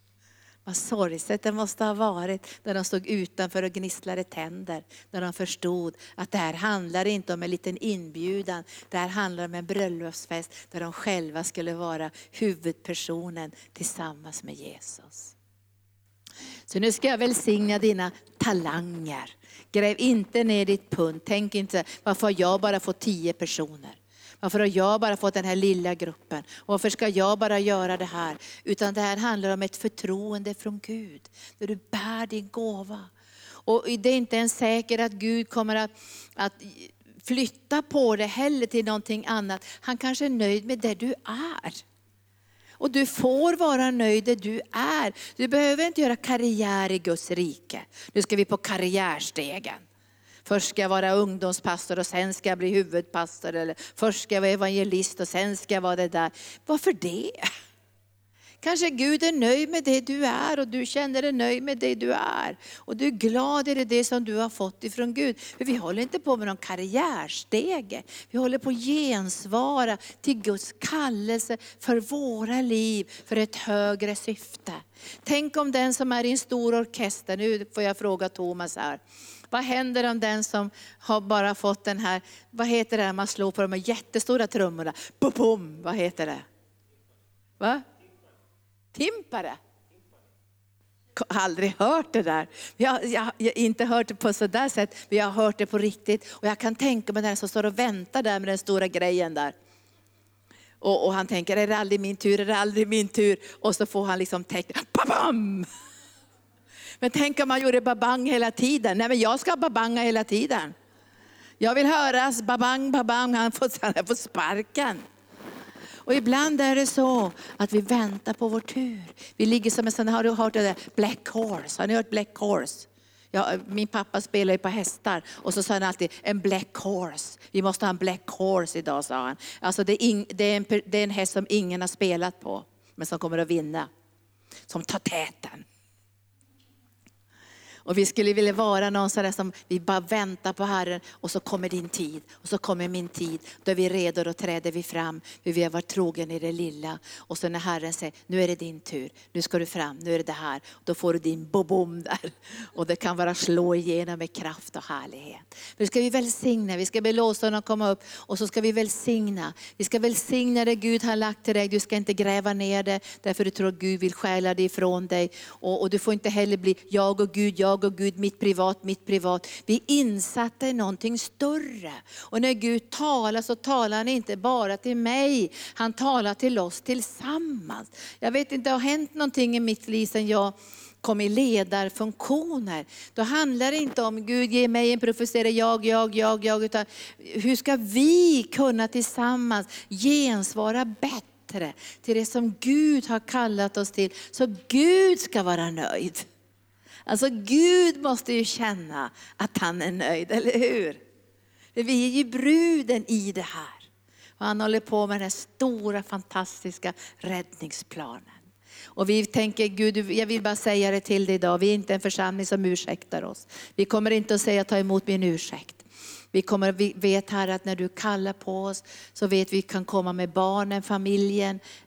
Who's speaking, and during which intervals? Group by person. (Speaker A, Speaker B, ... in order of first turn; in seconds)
Speaker A: 0.7-15.3, 16.7-33.1, 33.7-41.8, 42.8-49.8, 50.5-57.5, 58.6-86.5, 87.6-87.8, 88.9-89.6, 91.2-99.5, 100.8-105.7, 107.0-110.7, 111.6-115.0, 116.0-133.9, 134.7-135.7, 137.8-196.3, 197.1-201.0, 201.8-203.9, 204.4-208.4, 209.0-221.6